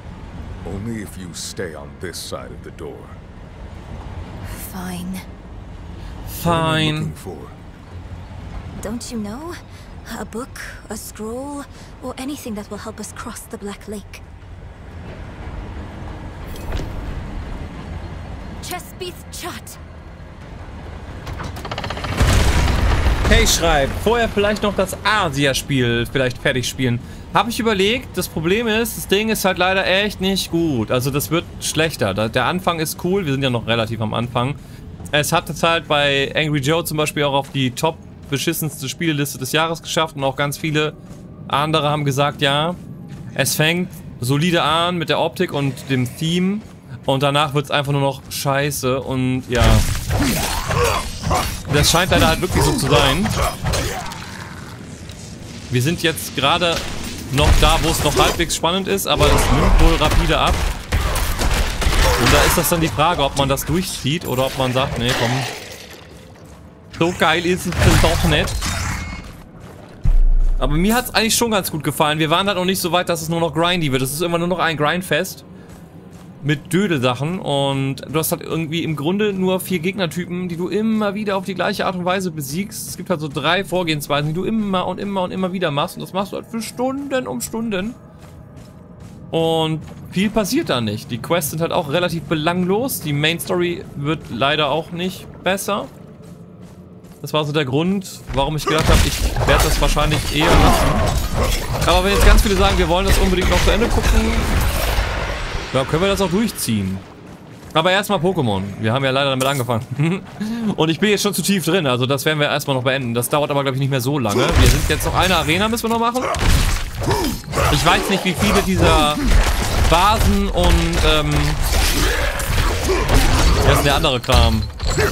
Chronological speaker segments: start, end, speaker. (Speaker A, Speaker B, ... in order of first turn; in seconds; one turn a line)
Speaker A: 0.6-3.2
Speaker B: 4.5-5.2
Speaker C: 6.3-7.1
Speaker A: 6.4-7.5
Speaker B: 8.8-14.2
Speaker B: 18.6-19.8
Speaker C: 23.3-34.6
Speaker C: 35.1-41.0
Speaker C: 41.5-42.8
Speaker C: 43.4-49.9
Speaker C: 51.7-53.3
Speaker C: 55.7-60.7
Speaker C: 62.2-65.5
Speaker C: 67.0-68.6
Speaker C: 70.6-75.4
Speaker C: 76.4-88.0
Speaker C: 89.3-95.9
Speaker C: 97.2-101.0
Speaker C: 101.8-104.6
Speaker C: 105.7-107.0
Speaker C: 107.7-116.3
Speaker C: 117.7-119.2
Speaker C: 119.8-121.6
Speaker C: 123.6-124.7